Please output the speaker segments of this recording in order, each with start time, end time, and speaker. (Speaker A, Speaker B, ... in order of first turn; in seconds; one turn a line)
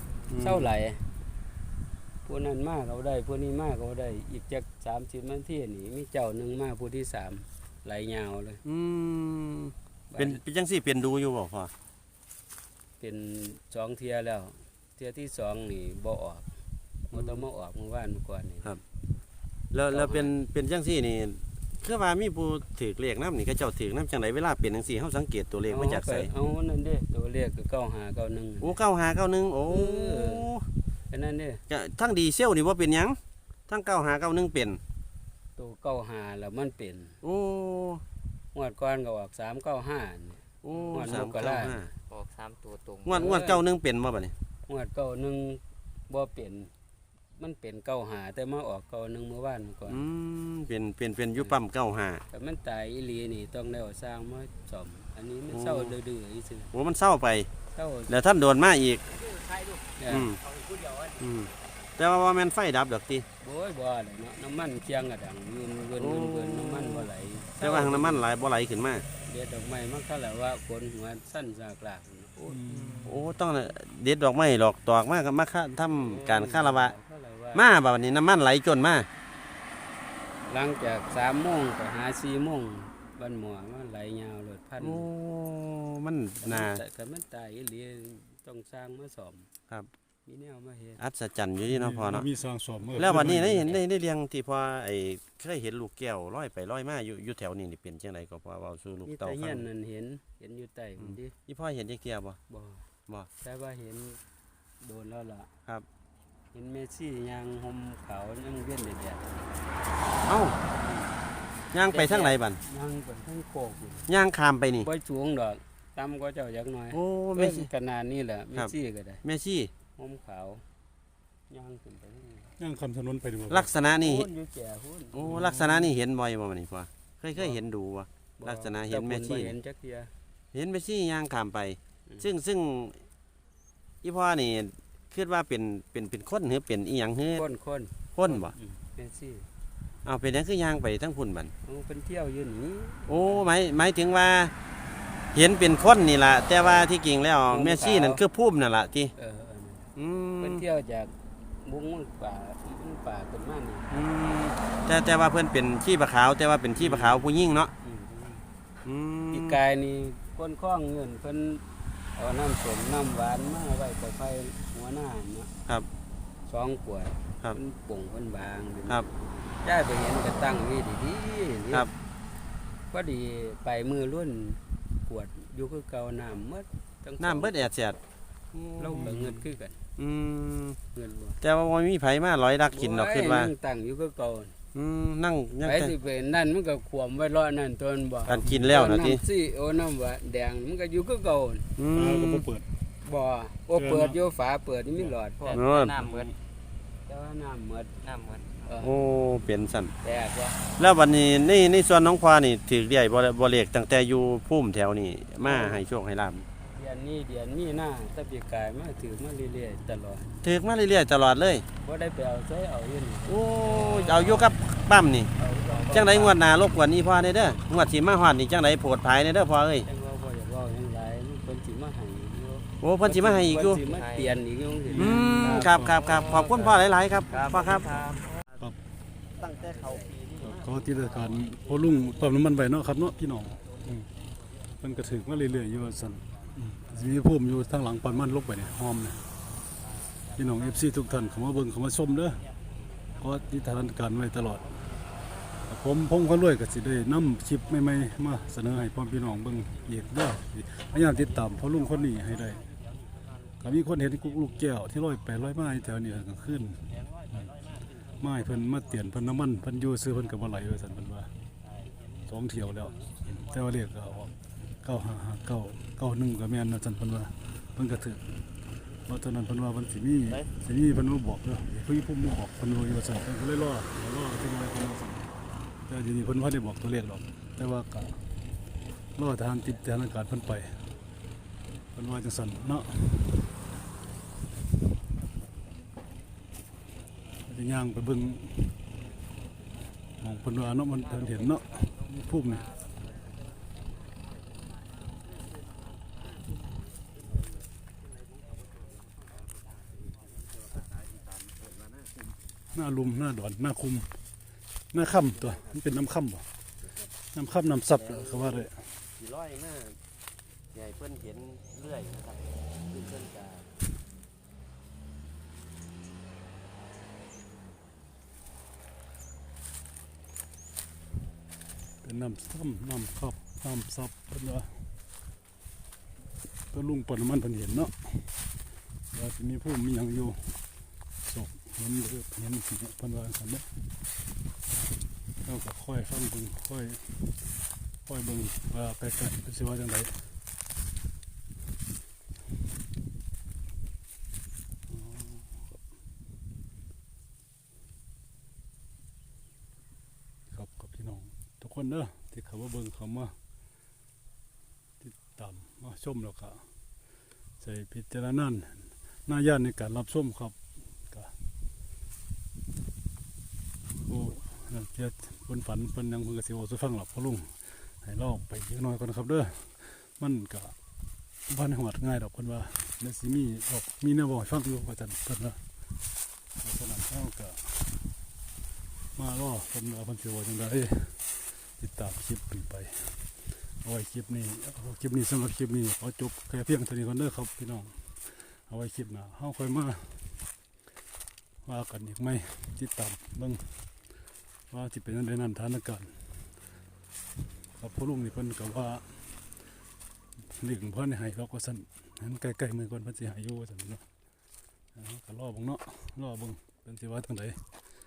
Speaker A: 0.3-0.7
Speaker B: 0.4-1.0
Speaker B: 2.2-8.6
Speaker A: 8.7-11.7
Speaker B: 10.1-10.4
Speaker B: 13.0-16.5
Speaker B: 17.1-18.8
Speaker A: 17.1-17.4
Speaker A: 19.7-26.3
Speaker B: 19.9-20.3
Speaker B: 25.7-28.8
Speaker A: 28.6-30.6
Speaker B: 29.7-30.5
Speaker B: 31.1-31.6
Speaker A: 31.7-33.2
Speaker A: 33.7-34.8
Speaker B: 35.6-37.2
Speaker A: 37.2-38.0
Speaker B: 38.5-41.8
Speaker A: 40.6-41.9
Speaker C: 40.7-41.1
Speaker C: 42.1-43.3
Speaker A: 43.0-44.3
Speaker B: 43.1-43.6
Speaker B: 44.7-46.7
Speaker B: 47.4-50.0
Speaker A: 49.9-52.2
Speaker B: 52.3-56.7
Speaker A: 55.5-56.0
Speaker A: 56.7-57.5
Speaker B: 57.7-58.1
Speaker A: 58.1-59.0
Speaker C: 59.2-61.2
Speaker B: 60.0-60.3
Speaker A: 60.1-60.4
Speaker A: 61.2-63.3
Speaker B: 63.4-68.3
Speaker A: 66.0-67.1
Speaker A: 67.6-69.0
Speaker B: 69.3-72.6
Speaker D: 72.5-73.3
Speaker C: 72.7-73.1
Speaker A: 73.0-76.9
Speaker B: 75.9-77.6
Speaker A: 77.5-79.1
Speaker B: 80.5-85.1
Speaker A: 84.8-86.8
Speaker B: 86.4-89.5
Speaker B: 90.3-91.0
Speaker A: 91.0-92.3
Speaker D: 91.7-93.8
Speaker A: 93.0-99.7
Speaker B: 93.2-93.5
Speaker B: 99.1-101.3
Speaker A: 101.0-102.4
Speaker B: 102.5-102.8
Speaker B: 103.4-104.2
Speaker B: 104.8-105.5
Speaker B: 106.5-109.4
Speaker A: 110.3-110.6
Speaker B: 110.7-111.1
Speaker A: 111.7-112.6
Speaker B: 111.9-114.1
Speaker A: 114.1-114.9
Speaker B: 114.8-119.2
Speaker A: 116.9-117.7
Speaker A: 119.2-119.7
Speaker B: 120.0-120.6
Speaker B: 121.5-122.5
Speaker D: 122.6-123.7
Speaker A: 123.5-124.3
Speaker B: 124.0-125.6
Speaker A: 125.1-129.5
Speaker D: 125.2-125.8
Speaker B: 128.4-130.1
Speaker A: 130.5-133.0
Speaker A: 134.0-137.5
Speaker B: 137.3-139.5
Speaker A: 138.2-138.6
Speaker A: 140.1-141.5
Speaker B: 141.6-143.5
Speaker A: 143.1-144.5
Speaker A: 145.3-149.1
Speaker B: 147.5-148.2
Speaker B: 149.2-154.0
Speaker A: 150.0-150.6
Speaker A: 153.9-157.7
Speaker B: 156.8-157.2
Speaker B: 157.8-158.4
Speaker A: 158.8-159.6
Speaker B: 159.3-165.5
Speaker B: 166.5-169.1
Speaker B: 169.6-171.9
Speaker B: 172.9-177.7
Speaker A: 177.2-178.0
Speaker A: 178.5-179.3
Speaker B: 178.8-179.8
Speaker D: 178.8-179.4
Speaker A: 180.0-180.8
Speaker B: 180.9-181.4
Speaker A: 181.4-183.5
Speaker B: 182.7-184.6
Speaker A: 184.7-185.9
Speaker B: 185.6-191.7
Speaker A: 188.3-189.2
Speaker D: 188.4-188.9
Speaker A: 191.8-192.5
Speaker D: 191.9-192.7
Speaker B: 193.0-195.6
Speaker D: 193.7-194.2
Speaker C: 195.4-196.3
Speaker A: 195.5-196.2
Speaker B: 197.1-197.9
Speaker C: 198.0-198.8
Speaker B: 198.6-199.0
Speaker A: 198.8-199.9
Speaker B: 200.0-200.7
Speaker A: 200.8-206.5
Speaker B: 205.4-205.8
Speaker B: 206.7-210.3
Speaker A: 210.4-211.7
Speaker B: 211.8-214.5
Speaker A: 213.3-215.3
Speaker B: 215.4-216.3
Speaker C: 215.7-216.4
Speaker A: 215.9-219.9
Speaker B: 219.8-225.9
Speaker A: 222.8-223.8
Speaker C: 223.6-224.4
Speaker D: 224.9-225.6
Speaker A: 224.9-228.0
Speaker C: 225.4-228.4
Speaker A: 229.4-230.7
Speaker D: 230.4-234.1
Speaker D: 234.8-239.2
Speaker D: 240.4-242.4
Speaker D: 243.2-244.8
Speaker D: 245.7-252.6
Speaker A: 252.7-253.2
Speaker D: 253.6-257.6
Speaker A: 256.9-258.2
Speaker D: 258.2-261.3
Speaker D: 262.3-268.5
Speaker A: 262.9-263.4
Speaker D: 269.1-275.3
Speaker D: 275.9-278.2
Speaker D: 279.2-280.9
Speaker D: 281.9-283.5
Speaker D: 287.5-288.8
Speaker D: 290.2-292.7
Speaker C: 291.1-292.8
Speaker A: 300.6-302.2
Speaker D: 302.7-304.1
Speaker D: 304.9-306.5
Speaker A: 305.4-305.8
Speaker A: 306.8-307.1
Speaker D: 307.3-308.9
Speaker A: 307.9-310.0
Speaker A: 310.7-313.7
Speaker D: 322.0-324.9
Speaker D: 326.7-328.4
Speaker D: 329.1-330.6
Speaker D: 331.2-333.9
Speaker D: 335.4-337.5
Speaker D: 338.1-340.4
Speaker D: 344.9-345.8
Speaker D: 350.5-353.4
Speaker D: 355.0-356.7
Speaker D: 357.6-361.4
Speaker D: 364.0-370.8
Speaker D: 371.5-375.6
Speaker D: 376.6-378.1
Speaker D: 379.1-390.5
Speaker D: 391.6-393.9
Speaker D: 394.7-396.6
Speaker D: 397.6-399.6
Speaker D: 400.4-404.1
Speaker D: 404.9-407.8